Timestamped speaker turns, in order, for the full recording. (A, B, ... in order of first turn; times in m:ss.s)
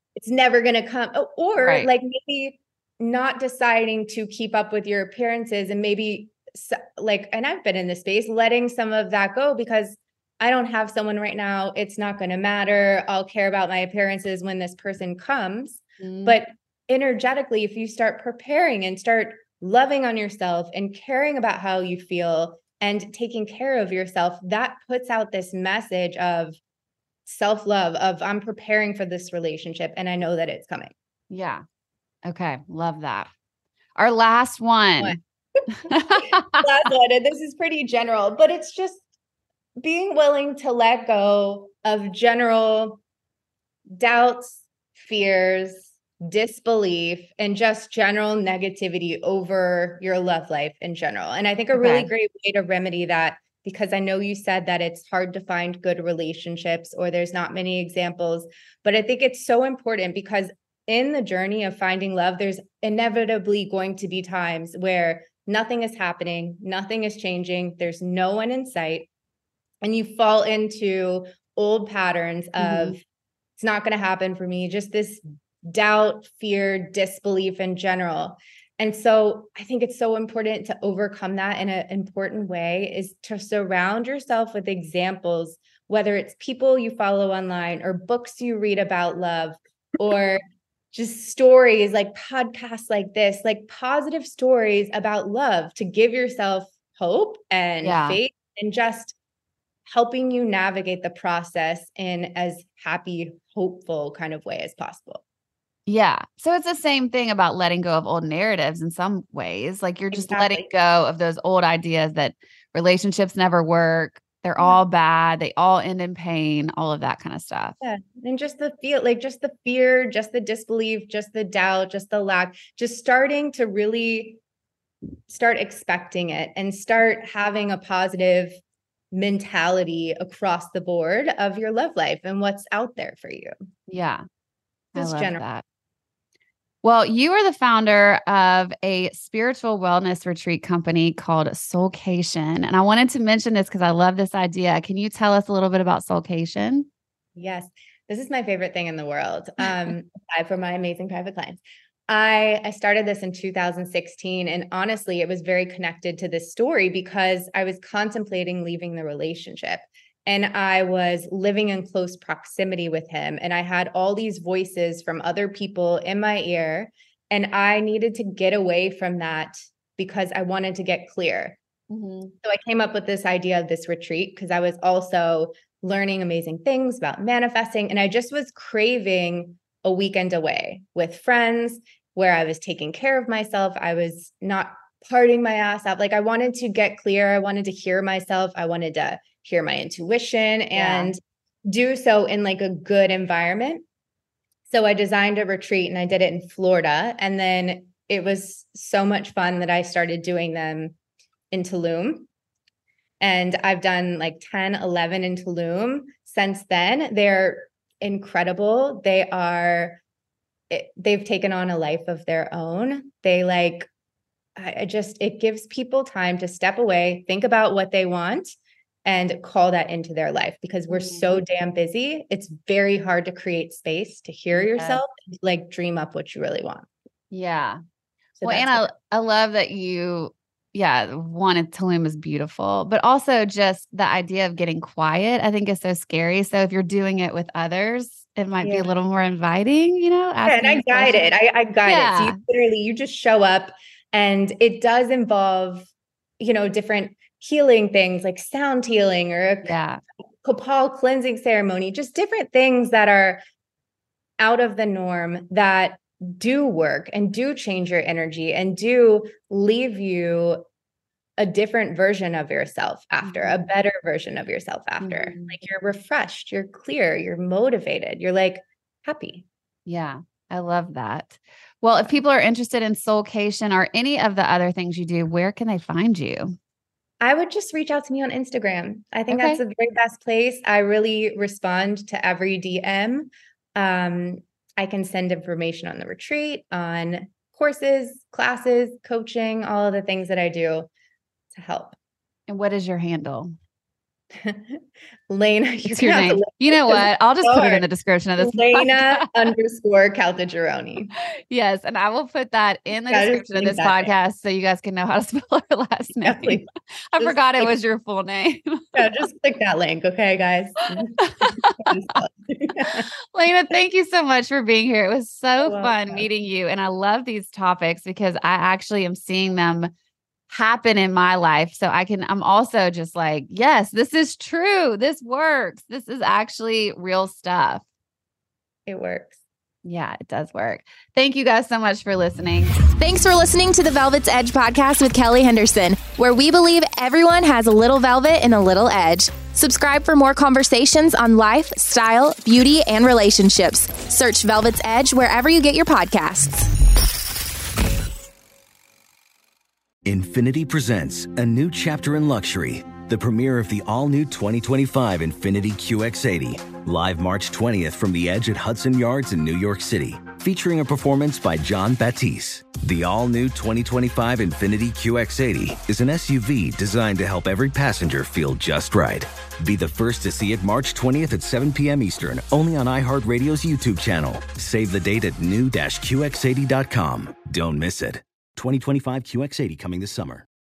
0:00.2-0:26.6 A
0:01.6-0:01.9 B
0:16.0-0:16.4 B
0:27.2-0:30.9 A
0:31.3-0:31.6 B
0:32.2-0:33.3 B
0:34.0-0:35.2 B
0:35.7-0:36.6 B
0:35.9-0:39.0 A
0:39.8-0:43.0 A
0:43.9-1:09.1 A
0:51.7-0:52.1 B
1:09.8-1:13.0 A
1:12.6-1:13.0 B
1:13.6-1:30.4 A
1:30.9-1:39.1 A
1:37.8-1:38.2 B
1:39.8-1:45.2 A
1:45.9-1:57.8 B
1:50.1-1:50.7 A
1:57.8-2:04.4 A
2:05.3-2:08.6 A
2:09.1-2:13.5 A
2:13.9-2:14.2 B
2:14.9-2:15.4 A
2:15.0-2:15.6 B
2:16.8-2:26.9 B
2:27.4-2:51.6 A
2:51.9-2:52.3 B
2:52.4-3:13.8 A
3:10.7-3:11.1 B
3:14.7-3:20.9 A
3:21.5-3:22.3 A
3:23.2-3:30.0 A
3:30.7-3:33.9 A
3:34.6-3:38.5 A
3:39.0-3:46.9 A
3:40.9-3:41.4 B
3:44.5-3:45.0 B
3:47.3-3:47.8 B
3:48.4-3:48.8 A
3:48.4-4:01.3 B
3:58.6-3:58.9 A
4:00.4-4:05.9 A
4:01.8-4:02.4 B
4:06.4-4:09.7 A
4:09.6-4:10.0 B
4:10.4-4:13.4 A
4:14.4-4:20.6 A
4:21.4-4:29.4 A
4:23.2-4:23.6 B
4:25.0-4:25.5 B
4:29.8-4:36.6 B
4:37.2-4:50.9 A
4:39.3-4:39.6 B
4:51.5-4:52.0 A
4:52.5-4:53.6 B
4:54.4-4:57.8 A
4:55.8-4:59.3 B
4:58.4-5:01.1 A
5:01.2-5:08.8 B
5:03.1-5:04.1 A
5:06.2-5:06.6 A
5:07.2-5:07.8 A
5:08.9-5:13.1 A
5:10.9-5:11.9 B
5:12.8-5:19.9 B
5:15.6-5:16.3 A
5:20.5-5:27.8 B
5:28.9-5:29.4 A
5:29.8-5:32.7 B
5:32.9-5:46.7 C
5:50.0-6:20.4 D